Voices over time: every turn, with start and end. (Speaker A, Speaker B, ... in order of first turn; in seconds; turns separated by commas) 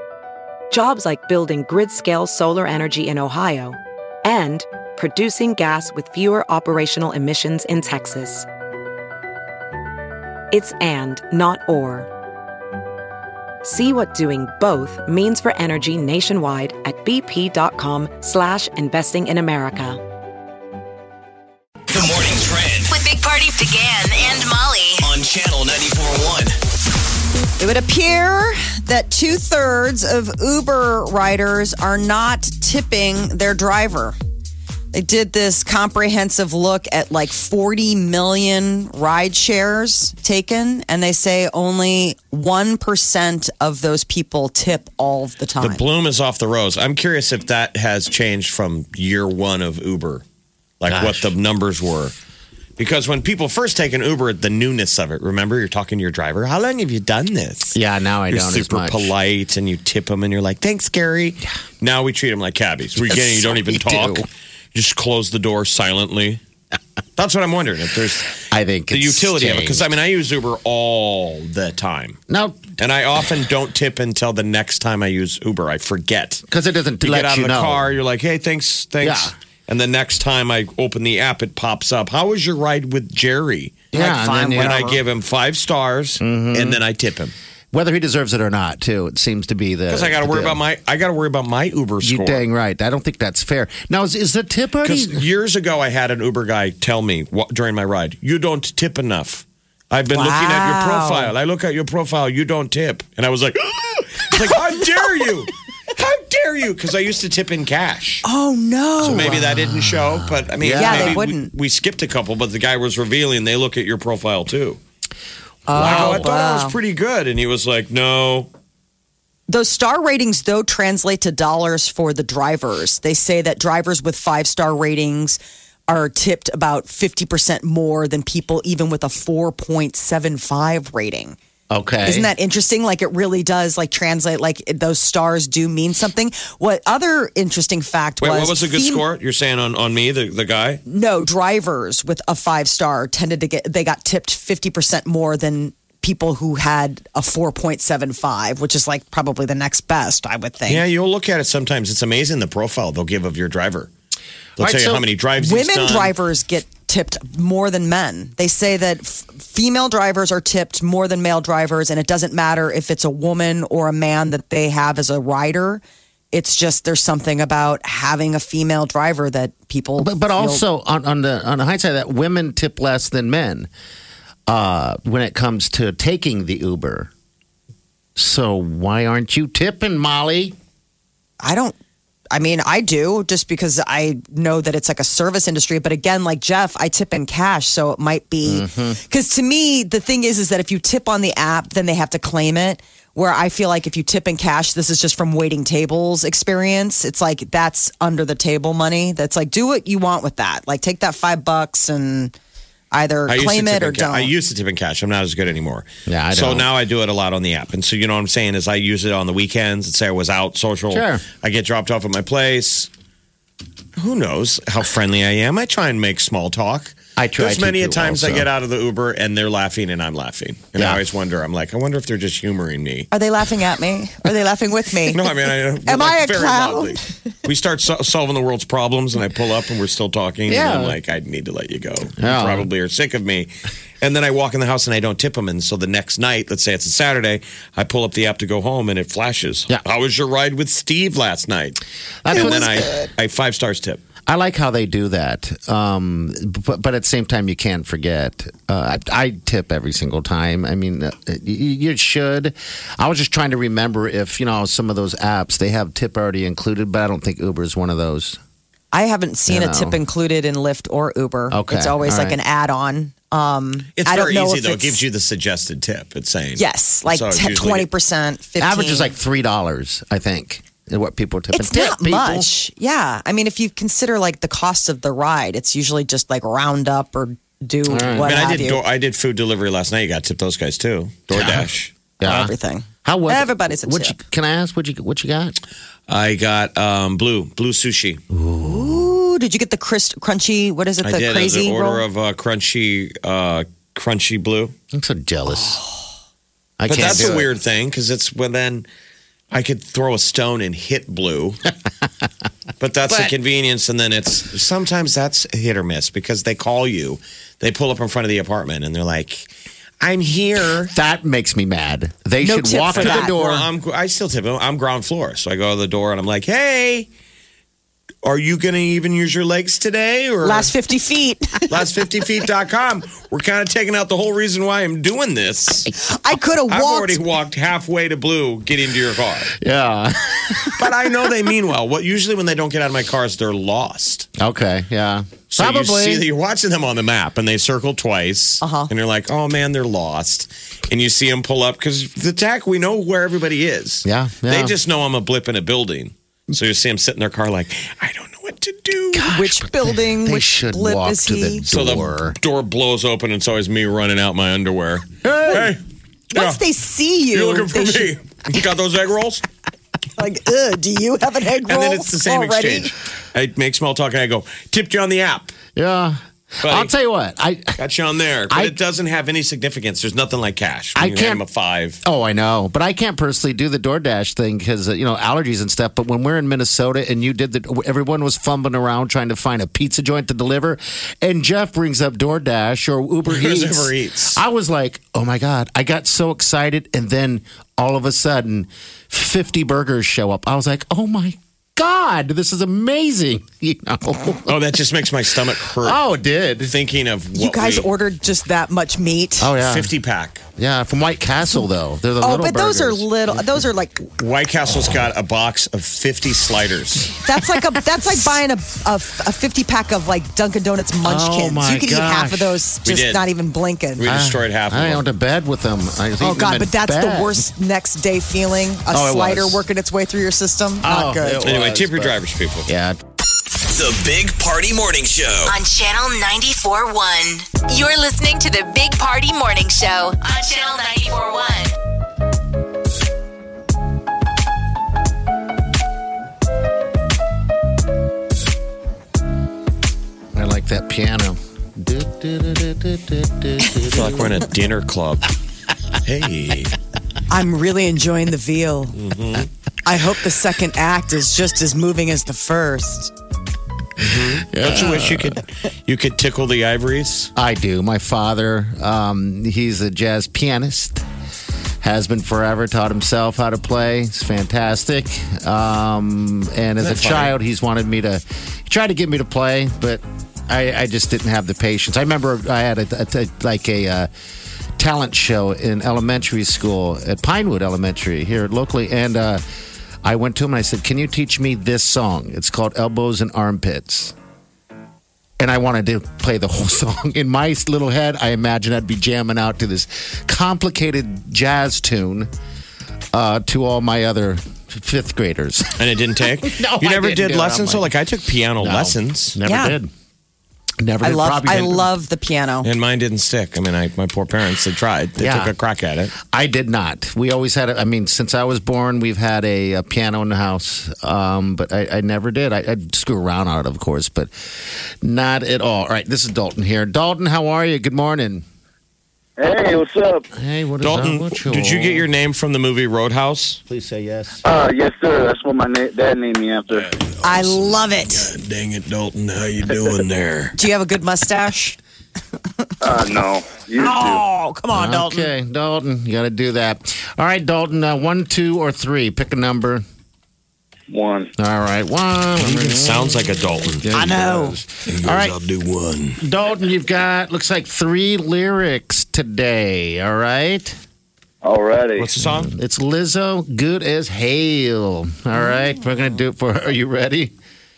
Speaker A: 0.7-8.5, Speaker A: 10.5-12.1, Speaker A: 13.6-20.0, Speaker B: 21.9-22.9, Speaker C: 22.9-25.1, Speaker B: 25.0-26.6, Speaker D: 27.6-34.1, Speaker D: 34.9-45.8, Speaker E: 45.6-50.2, Speaker E: 50.8-52.1, Speaker F: 50.9-51.3, Speaker E: 52.8-66.4, Speaker F: 57.7-59.1, Speaker F: 63.1-64.3, Speaker E: 67.2-68.3, Speaker F: 68.5-69.9, Speaker E: 68.9-72.2, Speaker F: 72.3-72.7, Speaker E: 72.8-76.4, Speaker F: 76.5-77.9, Speaker E: 77.0-83.8, Speaker F: 79.0-79.3, Speaker F: 83.9-84.7, Speaker D: 83.9-85.0, Speaker E: 84.5-87.3, Speaker F: 86.2-86.8, Speaker F: 87.7-90.6, Speaker E: 89.9-92.4, Speaker F: 92.0-95.2, Speaker E: 94.8-108.2, Speaker D: 100.1-101.3, Speaker D: 108.2-109.4, Speaker E: 109.0-114.8, Speaker F: 109.1-111.2, Speaker D: 110.7-111.5, Speaker D: 115.7-116.8, Speaker F: 115.7-116.3, Speaker E: 115.7-118.5, Speaker D: 119.5-131.4, Speaker F: 131.7-132.3, Speaker D: 132.0-139.0, Speaker E: 138.2-140.8, Speaker D: 140.8-150.8, Speaker E: 150.7-153.9, Speaker E: 154.6-156.1, Speaker F: 154.6-155.1, Speaker D: 155.4-170.6, Speaker F: 170.0-173.7, Speaker F: 174.5-177.1, Speaker F: 178.2-180.5, Speaker D: 181.4-181.7, Speaker D: 182.3-202.3, Speaker F: 188.4-189.0, Speaker D: 202.9-204.3, Speaker E: 203.3-212.9, Speaker F: 206.1-206.7, Speaker F: 210.9-211.2, Speaker E: 214.0-223.1, Speaker F: 217.2-218.5, Speaker F: 220.7-221.0, Speaker D: 223.1-225.3, Speaker E: 225.1-244.0, Speaker D: 225.8-227.1, Speaker F: 230.5-231.0, Speaker F: 232.2-232.7, Speaker F: 242.2-243.1, Speaker F: 244.2-258.4, Speaker D: 258.9-265.0, Speaker F: 259.5-260.0, Speaker F: 261.5-262.4, Speaker E: 263.9-267.9, Speaker D: 266.6-269.1, Speaker F: 268.6-272.5, Speaker D: 271.5-278.8, Speaker F: 277.9-278.3, Speaker E: 278.2-281.9, Speaker F: 281.3-282.5, Speaker D: 282.2-284.1, Speaker F: 283.0-285.6, Speaker E: 286.1-288.2, Speaker F: 288.3-289.1, Speaker D: 288.6-292.0, Speaker E: 291.0-294.7, Speaker F: 294.9-295.8, Speaker D: 295.5-295.9, Speaker F: 296.8-297.5, Speaker E: 296.9-298.9, Speaker E: 299.5-301.6, Speaker E: 302.8-309.5, Speaker F: 303.1-303.3, Speaker E: 310.0-310.9, Speaker F: 310.9-313.7, Speaker D: 312.4-313.3, Speaker E: 312.9-317.1, Speaker E: 318.2-320.7, Speaker D: 320.4-321.8, Speaker E: 321.7-325.9, Speaker D: 326.0-327.2, Speaker E: 326.7-329.5, Speaker F: 329.5-330.9, Speaker E: 330.8-334.3, Speaker F: 334.4-336.2, Speaker E: 335.5-349.3, Speaker D: 338.6-338.9, Speaker F: 344.0-344.8, Speaker F: 349.1-352.4, Speaker D: 349.3-351.6, Speaker E: 351.7-355.8, Speaker D: 355.2-355.6, Speaker E: 356.3-356.6, Speaker D: 356.3-358.1, Speaker E: 357.3-359.4, Speaker D: 360.1-362.9, Speaker E: 361.7-365.6, Speaker F: 365.7-367.8, Speaker E: 366.6-366.9, Speaker E: 367.8-372.0, Speaker F: 368.5-368.8, Speaker F: 370.9-371.4, Speaker F: 372.0-394.5, Speaker E: 383.2-384.4, Speaker E: 394.4-396.0, Speaker F: 395.7-396.7, Speaker E: 396.6-397.9, Speaker D: 397.3-399.5, Speaker F: 399.4-399.9, Speaker E: 399.6-400.4, Speaker F: 400.6-403.6, Speaker D: 402.2-404.0, Speaker E: 404.2-407.1, Speaker D: 407.2-414.1, Speaker F: 411.0-412.6, Speaker E: 412.8-413.2, Speaker E: 414.0-415.0, Speaker F: 414.0-417.5, Speaker D: 416.2-421.5, Speaker F: 418.9-419.6, Speaker F: 420.8-422.9, Speaker E: 421.4-422.7, Speaker B: 423.7-425.5, Speaker C: 425.4-431.7, Speaker D: 427.7-429.4, Speaker F: 440.3-444.4, Speaker E: 443.9-445.3, Speaker E: 446.0-446.8, Speaker D: 447.3-449.0, Speaker E: 448.9-449.5, Speaker D: 449.8-453.1, Speaker E: 454.0-457.3, Speaker F: 454.5-455.4, Speaker F: 457.4-461.0, Speaker F: 461.8-474.1, Speaker E: 466.8-467.3, Speaker F: 474.8-479.4, Speaker F: 480.0-484.1, Speaker F: 485.4-492.3, Speaker F: 493.1-495.8, Speaker E: 495.7-499.4, Speaker F: 496.4-497.9, Speaker F: 498.6-499.9, Speaker D: 499.4-499.8, Speaker F: 500.8-501.9, Speaker D: 501.0-502.7, Speaker E: 502.6-506.1, Speaker F: 505.2-505.5, Speaker F: 506.2-514.3, Speaker F: 515.0-518.4, Speaker G: 519.4-520.2, Speaker F: 520.4-522.1, Speaker E: 520.8-523.6, Speaker F: 523.7-524.4, Speaker G: 524.4-526.9, Speaker E: 526.7-530.6, Speaker D: 527.2-528.3, Speaker D: 530.6-531.8, Speaker G: 532.8-534.2, Speaker D: 533.8-535.3, Speaker F: 534.7-539.8, Speaker G: 540.9-541.3, Speaker F: 541.4-545.4, Speaker E: 542.4-543.9, Speaker D: 543.9-544.6, Speaker E: 544.9-546.2, Speaker F: 546.2-550.7, Speaker G: 551.4-552.1, Speaker E: 552.0-552.5, Speaker F: 552.2-557.3